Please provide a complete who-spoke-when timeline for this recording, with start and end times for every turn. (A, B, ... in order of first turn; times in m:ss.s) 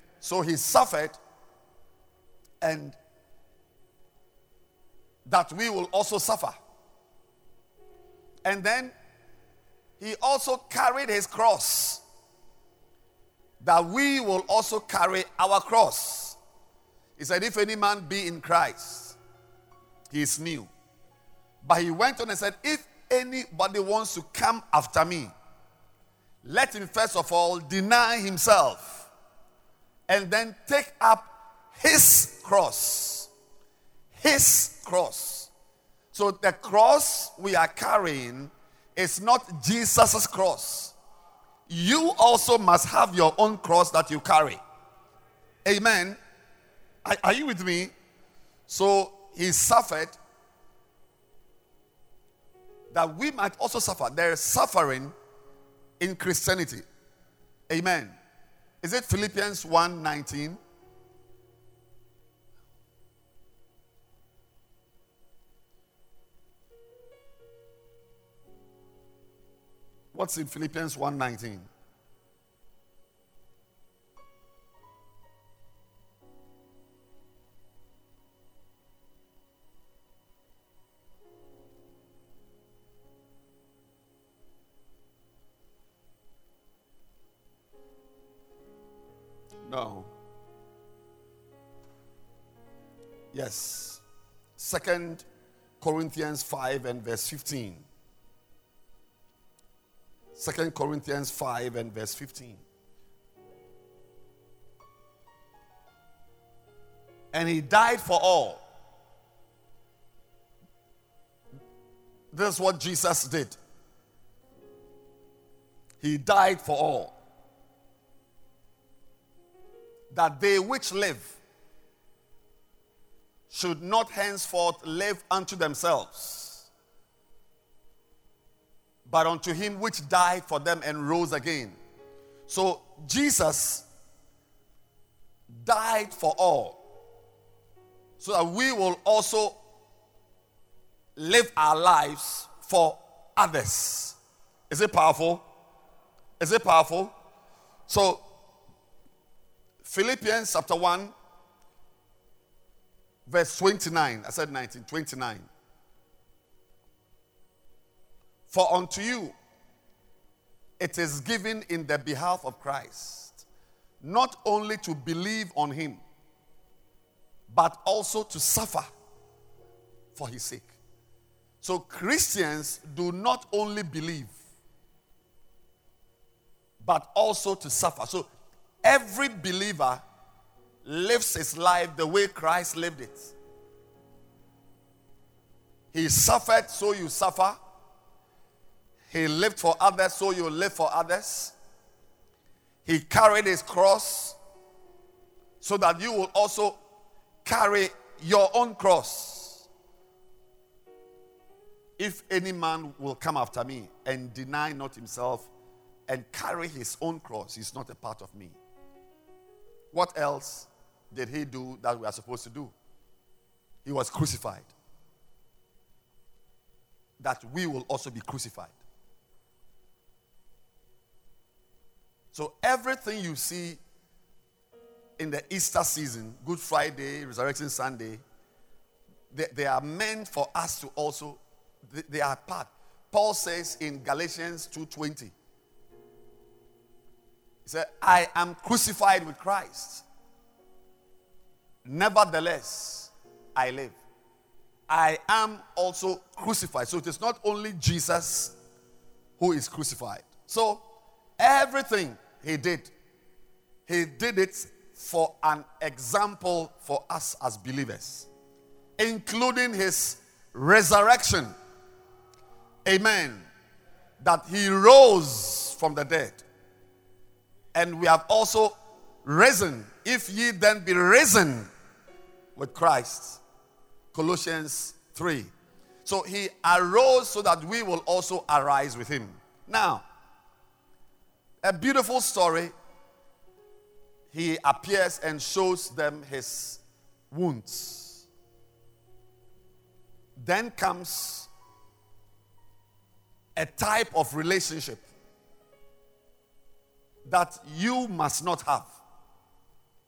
0:00.2-0:01.2 A
0:02.6-0:03.0 A
0:05.2-0:06.6 A
0:08.4-0:08.9 A
0:10.0-0:12.0 A
0:13.6-0:16.4 A
0:17.2-0:19.2 A
0:20.1-0:20.7 A
0:21.6-0:25.3 A
0:26.4-0:29.1 A
0:30.1-0:33.3 A
0:34.2-0:35.5 A
0:36.1-0:40.9 A
0:41.7-0:44.6 A
0:45.6-0:46.2 A
0:47.0-0:47.9 A
0:48.7-0:50.2 A
0:52.9-0:55.1 A
0:56.0-0:56.8 A
0:57.7-0:58.2 A
0:58.8-1:00.6 A
1:10.1-1:11.7 A
1:29.6-1:30.1 A
1:33.3-1:34.0 A
1:34.6-1:35.2 A
1:35.8-1:37.8 A
1:40.3-1:42.6 A
1:47.3-1:48.6 A
1:52.3-1:53.6 A
1:56.0-1:57.1 A
2:00.1-2:01.4 A
2:03.5-2:06.7 A
2:09.0-2:11.8 A
2:12.5-2:13.8 A
2:15.5-2:16.8 A
2:18.2-2:19.6 A
2:21.2-2:24.2 A
2:24.7-2:25.4 A
2:26.4-2:27.1 A
2:27.9-2:28.2 A
2:29.8-2:31.1 A
2:33.3-2:35.5 A
2:38.5-2:39.3 A
2:40.8-2:43.4 A
2:44.0-2:46.0 A
2:47.5-2:48.9 A
2:50.1-2:50.7 A
2:51.6-2:54.3 A
2:56.8-2:58.3 A
2:58.8-3:00.0 A
3:00.8-3:03.3 A
3:05.9-3:07.6 A
3:09.1-3:11.5 A
3:12.8-3:14.4 A
3:15.6-3:16.8 A
3:17.4-3:19.6 A
3:22.0-3:25.5 A
3:26.1-3:28.6 A
3:29.9-3:32.7 A
3:33.8-3:34.7 A
3:37.2-3:38.7 A
3:42.3-3:43.8 A
3:45.2-3:48.2 A
3:49.3-3:55.3 A
3:57.6-4:00.0 A
4:01.8-4:04.0 A
4:04.9-4:08.5 A
4:09.4-4:10.8 A
4:11.4-4:12.9 A
4:13.9-4:18.3 A
4:19.0-4:21.5 A
4:22.8-4:23.5 A
4:24.2-4:26.4 A
4:27.7-4:31.7 A
4:32.6-4:33.4 A
4:34.1-4:35.5 A
4:36.0-4:40.0 A
4:41.6-4:42.7 A
4:44.3-4:48.2 A
4:50.4-4:51.5 A
4:53.6-4:55.0 A
4:57.2-4:59.0 A